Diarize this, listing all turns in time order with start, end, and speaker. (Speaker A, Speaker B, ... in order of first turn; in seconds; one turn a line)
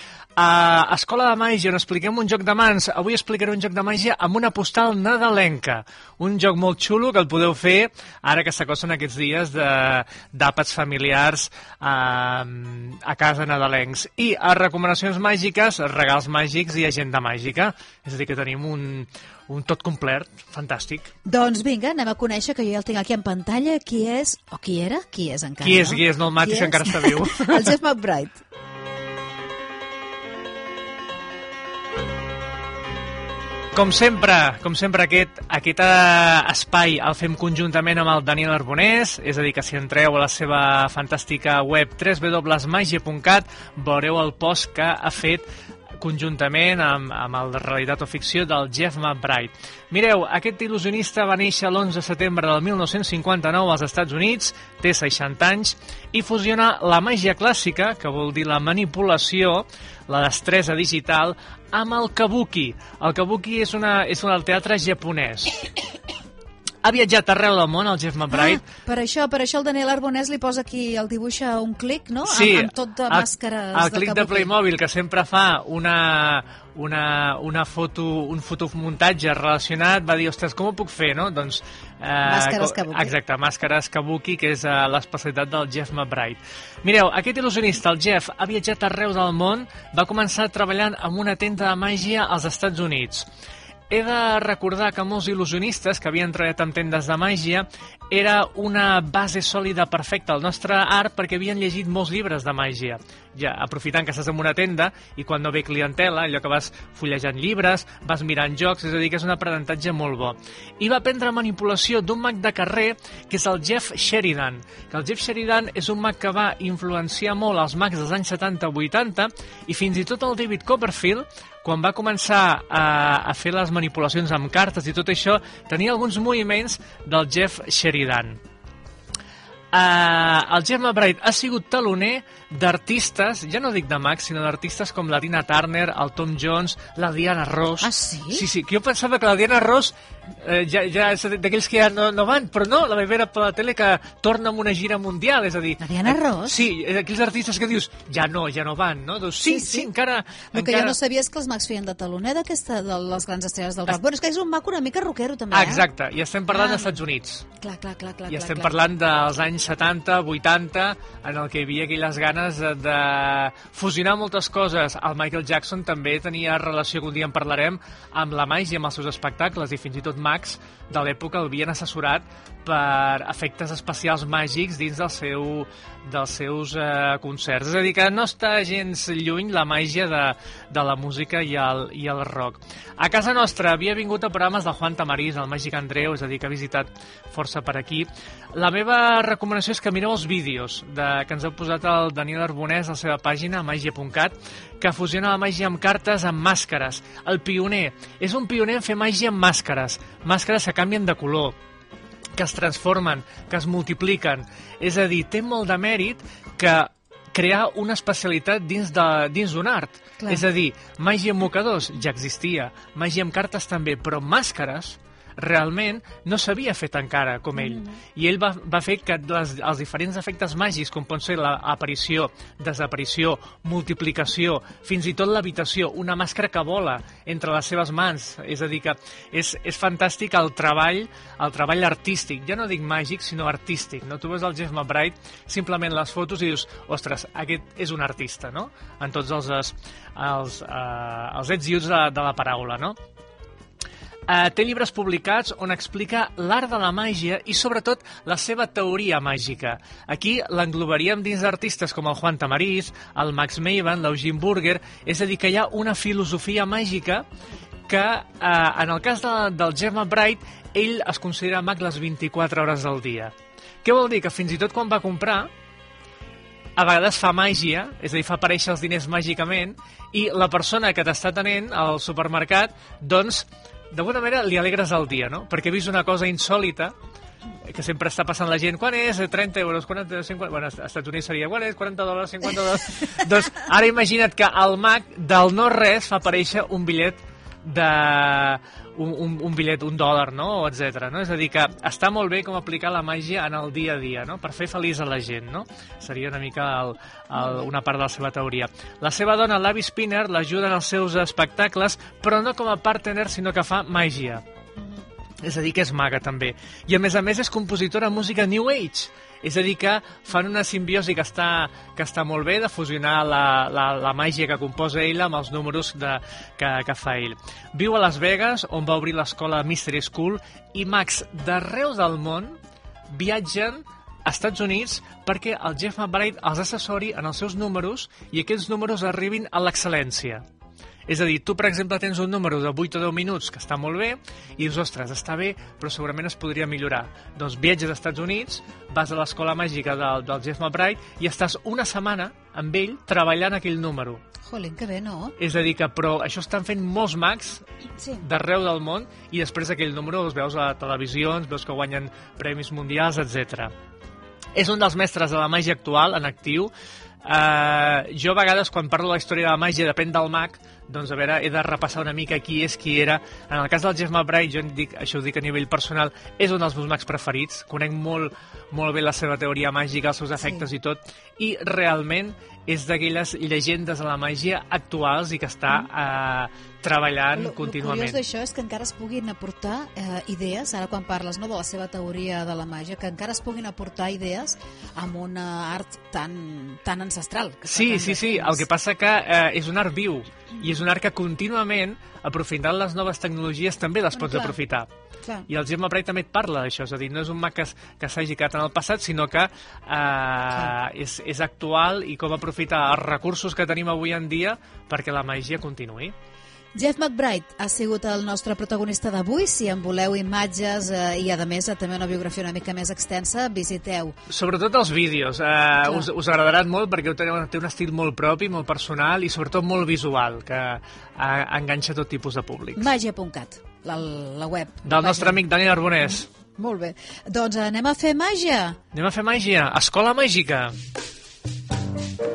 Speaker A: 0.4-21.1
Speaker B: 21.2-28.4
Speaker A: 25.6-27.7
Speaker A: 33.7-45.4
Speaker A: 46.0-65.6
Speaker A: 66.8-68.6
Speaker B: 68.3-74.5
Speaker A: 72.2-93.3
Speaker B: 82.2-83.1
Speaker A: 93.9-128.4
Speaker A: 129.7-150.9
Speaker B: 137.8-138.4
Speaker B: 145.8-146.6
Speaker B: 149.4-149.9
Speaker B: 150.5-155.8
Speaker A: 155.5-157.5
Speaker B: 156.5-157.0
Speaker B: 157.6-158.8
Speaker A: 158.3-201.6
Speaker A: 202.3-242.9
Speaker B: 210.2-210.4
Speaker B: 217.5-218.0
Speaker A: 244.3-257.2
Speaker A: 257.9-263.3
Speaker A: 263.8-265.5
Speaker A: 266.8-276.9
Speaker A: 277.6-304.4
Speaker A: 305.4-322.6
Speaker A: 323.1-330.4
Speaker A: 331.1-344.2
Speaker B: 344.4-345.4
Speaker A: 345.4-353.7
Speaker A: 354.5-356.7
Speaker A: 357.2-378.2
Speaker B: 370.4-370.6
Speaker B: 377.3-388.6
Speaker A: 387.7-394.9
Speaker B: 394.1-394.6
Speaker A: 395.5-406.1
Speaker B: 406.7-414.1
Speaker A: 414.3-422.8
Speaker B: 415.8-416.1
Speaker B: 422.8-425.4
Speaker A: 424.8-426.3
Speaker B: 426.5-428.8
Speaker A: 428.9-430.8